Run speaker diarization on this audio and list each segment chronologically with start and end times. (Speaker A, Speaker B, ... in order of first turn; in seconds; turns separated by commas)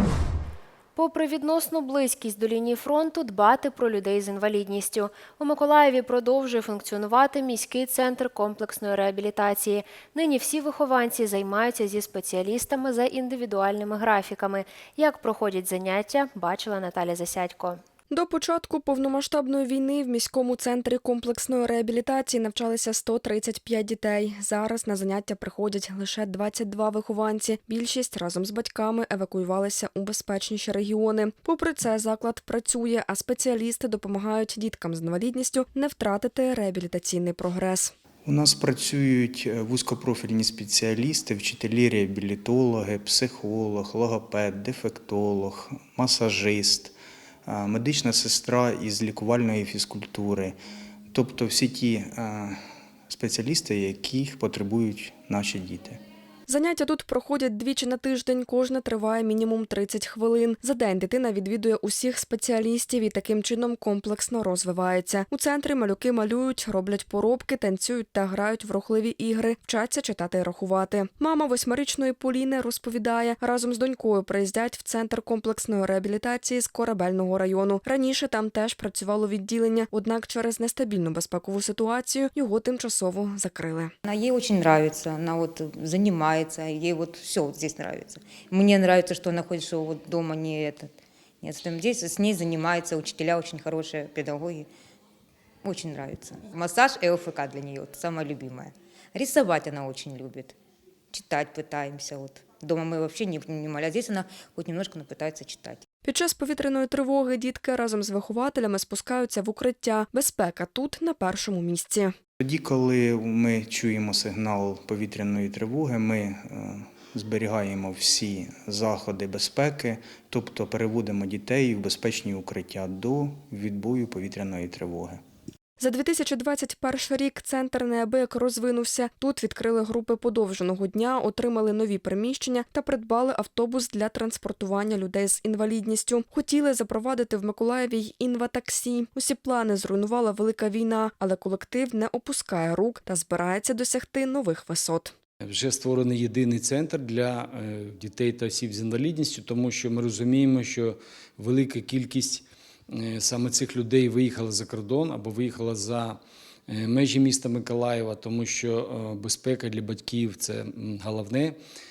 Speaker A: 0.9-17.8, Speaker B: 18.1-37.9, Speaker C: 38.2-50.6, Speaker C: 51.1-56.0, Speaker B: 56.5-83.9, Speaker D: 84.0-94.7, Speaker D: 95.6-100.5, Speaker D: 101.1-105.8, Speaker B: 106.0-112.1, Speaker C: 112.4-125.2, Speaker B: 125.8-145.1, Speaker E: 145.4-161.6